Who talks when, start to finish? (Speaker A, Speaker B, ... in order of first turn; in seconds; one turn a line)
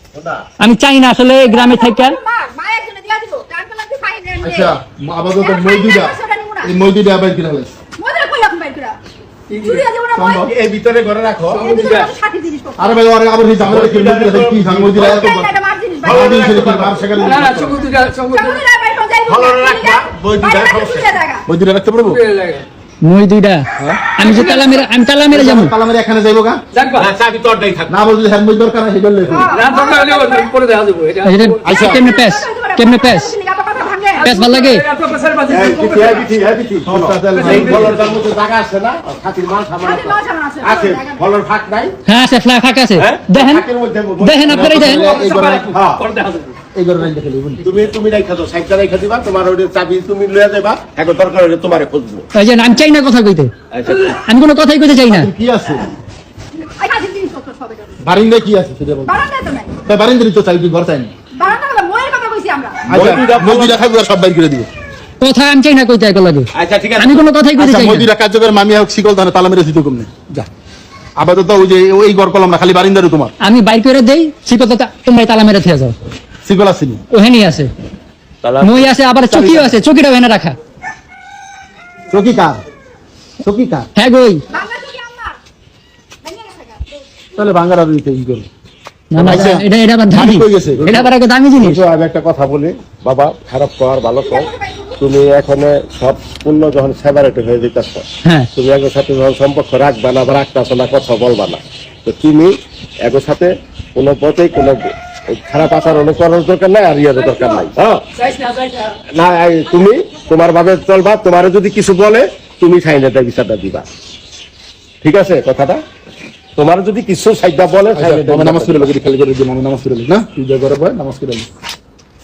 Speaker A: 0.1-0.4
Speaker B: 0.6-2.2
Speaker C: 1.4-4.7
Speaker D: 4.4-7.7
Speaker C: 5.4-6.7
Speaker C: 8.0-9.0
Speaker E: 9.5-9.8
Speaker C: 9.6-10.5
Speaker D: 10.2-10.5
Speaker A: 10.2-12.1
Speaker E: 11.5-12.1
Speaker C: 11.5-12.9
Speaker D: 12.8-15.5
Speaker A: 13.6-15.4
Speaker C: 14.9-16.5
Speaker A: 16.0-17.1
Speaker D: 16.0-17.8
Speaker E: 17.1-18.6
Speaker C: 18.3-21.4
Speaker A: 19.2-21.2
Speaker D: 21.5-22.2
Speaker E: 22.1-22.6
Speaker B: 23.0-25.7
Speaker D: 23.8-24.5
Speaker C: 24.2-24.9
Speaker D: 25.3-26.6
Speaker E: 26.7-27.1
Speaker A: 27.0-27.9
Speaker D: 27.9-29.6
Speaker C: 29.3-30.5
Speaker E: 29.5-31.6
Speaker B: 31.2-33.3
Speaker D: 31.6-32.0
Speaker C: 31.7-34.3
Speaker E: 34.1-36.3
Speaker B: 34.2-34.8
Speaker A: 35.5-41.9
Speaker D: 36.9-38.0
Speaker E: 37.3-38.0
Speaker C: 39.8-41.2
Speaker B: 42.0-43.7
Speaker A: 43.0-44.9
Speaker B: 44.2-45.1
Speaker D: 44.5-45.7
Speaker E: 44.8-46.5
Speaker A: 45.7-46.0
Speaker D: 46.7-47.6
Speaker A: 47.6-52.3
Speaker B: 52.3-53.5
Speaker A: 53.7-54.1
Speaker B: 54.0-55.3
Speaker D: 55.1-55.9
Speaker C: 56.6-58.0
Speaker D: 58.0-59.2
Speaker C: 59.0-59.8
Speaker D: 59.9-61.1
Speaker C: 61.4-62.8
Speaker A: 62.9-63.8
Speaker D: 62.9-64.7
Speaker B: 65.2-68.1
Speaker A: 66.5-67.2
Speaker D: 67.6-70.5
Speaker D: 71.2-73.3
Speaker B: 73.4-76.0
Speaker D: 76.4-77.0
Speaker B: 77.1-77.7
Speaker A: 78.4-78.9
Speaker B: 78.6-80.6
Speaker D: 79.3-79.7
Speaker D: 82.1-82.6
Speaker D: 83.4-83.9
Speaker B: 84.0-84.4
Speaker C: 84.5-85.3
Speaker C: 86.2-86.8
Speaker D: 87.3-88.5
Speaker B: 89.1-91.8
Speaker D: 89.2-90.9
Speaker A: 90.8-108.0
Speaker C: 94.2-95.0
Speaker E: 107.2-109.0
Speaker A: 109.1-113.8
Speaker A: 115.0-115.8
Speaker A: 116.5-118.9
Speaker D: 118.0-121.5